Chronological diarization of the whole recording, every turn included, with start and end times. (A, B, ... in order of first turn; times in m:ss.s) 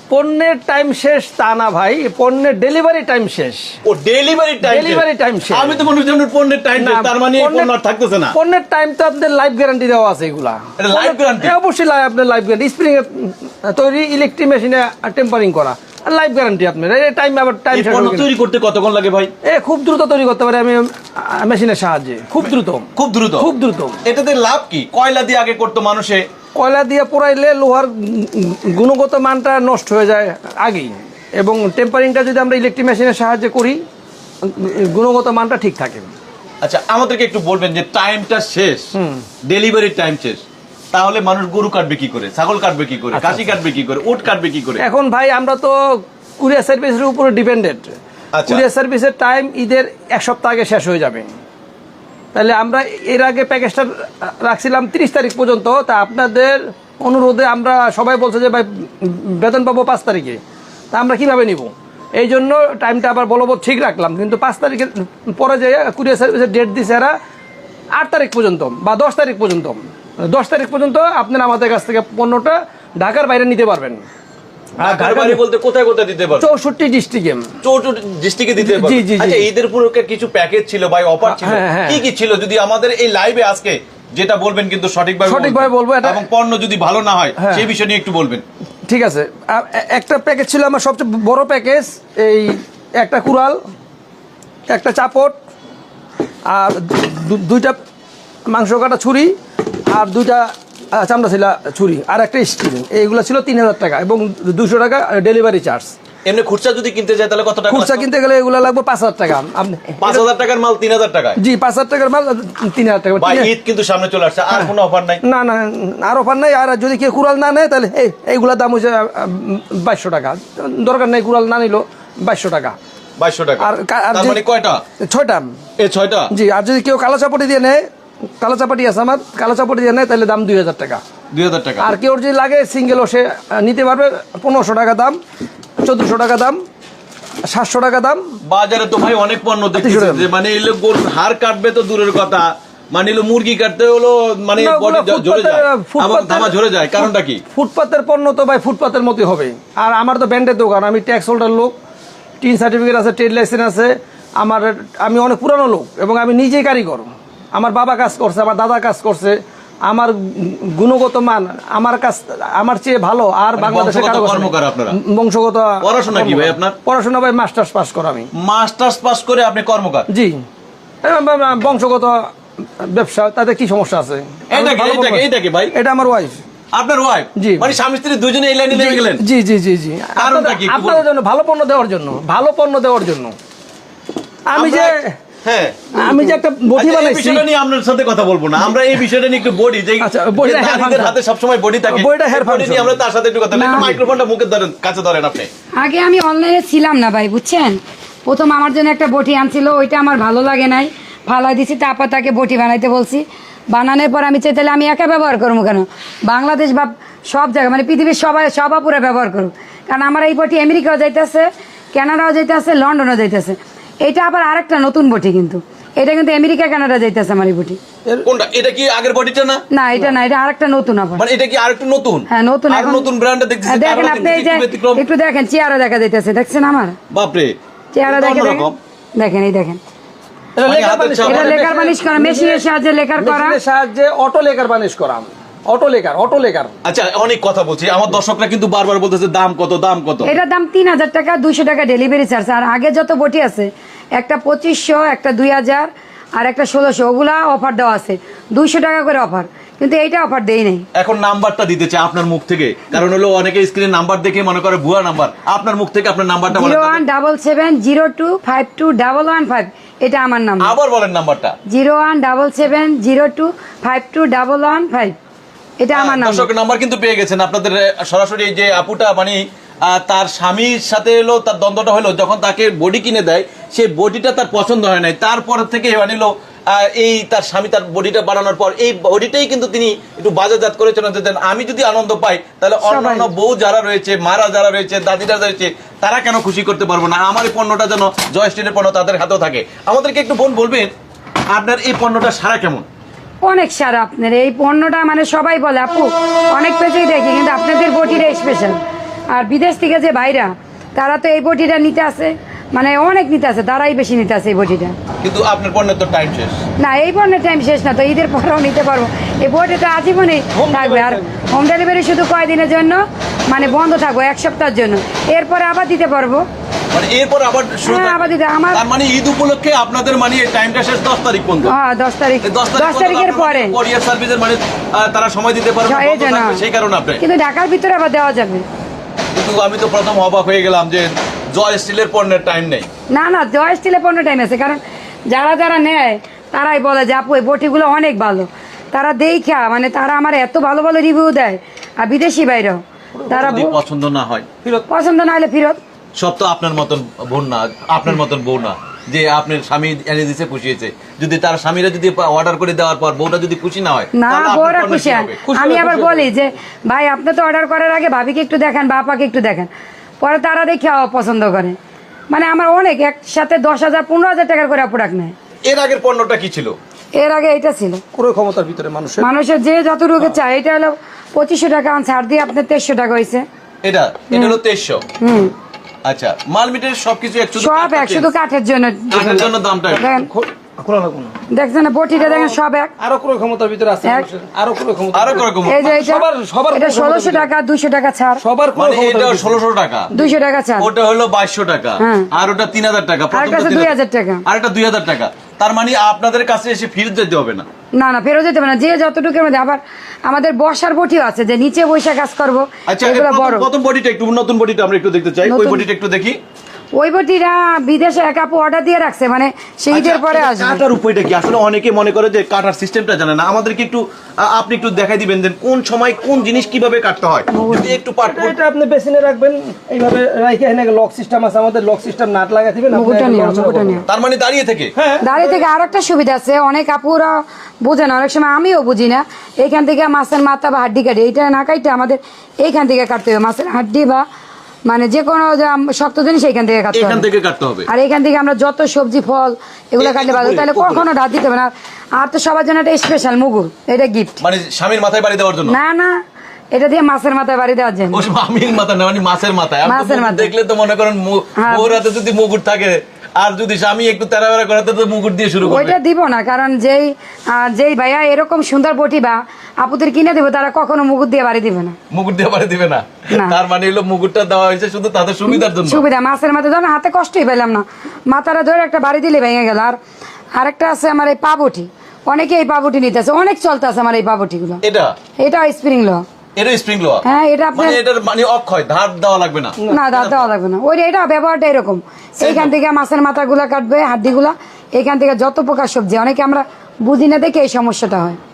0:00.1-0:03.8 A
0:03.8-0:08.4 B
0:04.6-0:05.9 A
0:06.8-0:07.7 A
0:08.3-0:18.3 A
0:10.8-0:11.6 B
0:17.7-0:19.3 B
0:19.4-0:24.0 A
0:23.0-0:23.5 B
0:24.0-0:26.2 B
0:26.6-0:33.8 A
0:34.4-0:36.1 A
0:36.6-0:38.9 B
0:39.0-0:39.2 A
0:39.4-0:44.8 B
0:43.1-0:43.5 A
0:44.8-0:51.3 A
0:48.3-0:48.6 B
0:52.3-1:00.4 A
1:00.9-1:07.2 A
1:08.0-1:14.0 A
1:14.8-1:15.4 A
1:14.8-1:16.5 B
1:16.4-1:17.5 A
1:17.6-1:28.4 B
1:18.6-1:19.5 A
1:21.2-1:22.0 A
1:25.3-1:26.2 A
1:27.4-1:27.7 A
1:28.9-1:33.6 A
1:34.7-1:35.4 A
1:36.5-1:37.8 A
1:38.5-1:39.3 A
1:39.9-1:45.9 A
1:46.2-1:48.1 B
1:47.7-1:50.3 A
1:50.0-1:51.4 B
1:51.4-1:53.5 A
1:53.2-1:55.2 B
1:54.5-2:02.8 A
2:03.2-2:04.8 B
2:03.6-2:04.4 A
2:05.0-2:05.5 A
2:05.8-2:06.3 B
2:06.3-2:07.8 A
2:08.4-2:11.0 A
2:11.3-2:11.9 B
2:11.8-2:15.2 A
2:15.8-2:16.6 A
2:17.5-2:18.2 A
2:18.4-2:27.4 B
2:19.8-2:20.3 A
2:24.6-2:31.8 A
2:32.4-2:48.3 A
2:43.6-2:45.0 B
2:45.8-2:46.8 B
2:48.4-2:50.1 B
2:50.1-2:50.4 A
2:51.0-2:52.3 A
2:52.8-2:56.4 A
2:54.5-2:55.7 B
2:56.7-2:59.2 B
2:57.4-2:57.7 A
2:58.7-3:03.4 A
3:00.2-3:01.0 B
3:04.5-3:05.2 A
3:04.5-3:04.9 B
3:05.4-3:05.8 B
3:05.9-3:06.4 C
3:06.0-3:07.5 A
3:06.8-3:15.5 B
3:10.0-3:11.2 A
3:11.9-3:13.0 A
3:13.5-3:14.0 C
3:15.8-3:37.8 C
3:38.2-3:39.6 B
3:39.7-3:41.2 C
3:41.2-3:45.0 B
3:42.3-3:43.1 C
3:43.7-3:47.0 C
3:47.1-3:48.8 B
3:47.9-3:49.8 C
3:50.6-3:52.6 A
3:50.6-3:51.6 B
3:51.2-3:53.6 C
3:53.2-3:56.8 A
3:56.8-4:00.3 B
4:00.2-4:10.8 C
4:11.0-4:17.0 B
4:16.5-4:20.7 C
4:20.6-4:21.6 B
4:21.7-4:25.2 C
4:25.8-4:26.5 C
4:25.9-4:50.9 B
4:42.8-4:43.3 C
4:51.5-4:52.8 B
4:53.4-4:58.8 C
4:59.3-5:05.0 C
5:05.2-5:06.6 B
5:06.8-5:16.4 C
5:10.5-5:11.3 A
5:16.9-5:21.7 B
5:17.8-5:18.8 C
5:21.6-5:23.8 C
5:22.4-5:27.2 B
5:25.8-5:26.6 C
5:27.2-5:28.7 C
5:29.3-5:32.9 B
5:33.1-5:43.8 C
5:43.2-5:43.8 A
5:43.4-5:44.5 B
5:44.9-5:45.8 C
5:46.2-5:55.4 B
5:54.1-5:59.7 C
5:55.5-5:56.3 A
6:00.2-6:01.8 C
6:02.3-6:05.3 C
6:05.6-6:06.8 B
6:07.2-6:08.0 C
6:08.2-6:09.3 A
6:09.2-6:13.4 C
6:13.8-6:15.0 B
6:15.2-6:15.5 C
6:16.0-6:18.3 B
6:17.6-6:20.3 C
6:19.1-6:20.1 B
6:19.2-6:19.5 A
6:20.0-6:21.3 A
6:21.5-6:22.9 C
6:22.2-6:27.5 A
6:25.1-6:26.0 B
6:25.6-6:28.4 C
6:28.4-6:30.4 A
6:28.8-6:30.1 B
6:30.1-6:30.9 C
6:30.8-6:33.9 B
6:32.0-6:32.3 C
6:33.3-6:34.4 C
6:34.5-6:37.7 B
6:38.0-6:43.7 C
6:42.9-6:46.4 B
6:45.4-6:45.8 C
6:47.0-6:50.8 C
6:49.9-6:58.6 B
6:57.5-6:58.0 C
6:58.2-7:04.0 A
7:02.9-7:04.0 C
7:04.1-7:04.9 B
7:05.0-7:05.7 A
7:05.2-7:14.2 C
7:14.9-7:17.2 C
7:16.9-7:17.9 B
7:17.9-7:24.4 C
7:20.0-7:21.1 B
7:24.4-7:25.8 B
7:25.7-7:26.2 C
7:26.7-7:28.3 C
7:28.1-7:36.0 B
7:29.8-7:30.5 C
7:31.6-7:32.0 C
7:35.6-7:42.0 C
7:42.1-7:46.0 B
7:43.3-7:43.6 C
7:45.5-7:50.0 C
7:50.6-7:54.8 C
7:54.8-7:55.2 B
7:55.4-7:56.2 C
7:56.6-7:57.2 B
7:57.2-7:58.0 C
7:57.8-8:00.5 B
7:59.9-8:08.4 C
8:02.4-8:02.7 B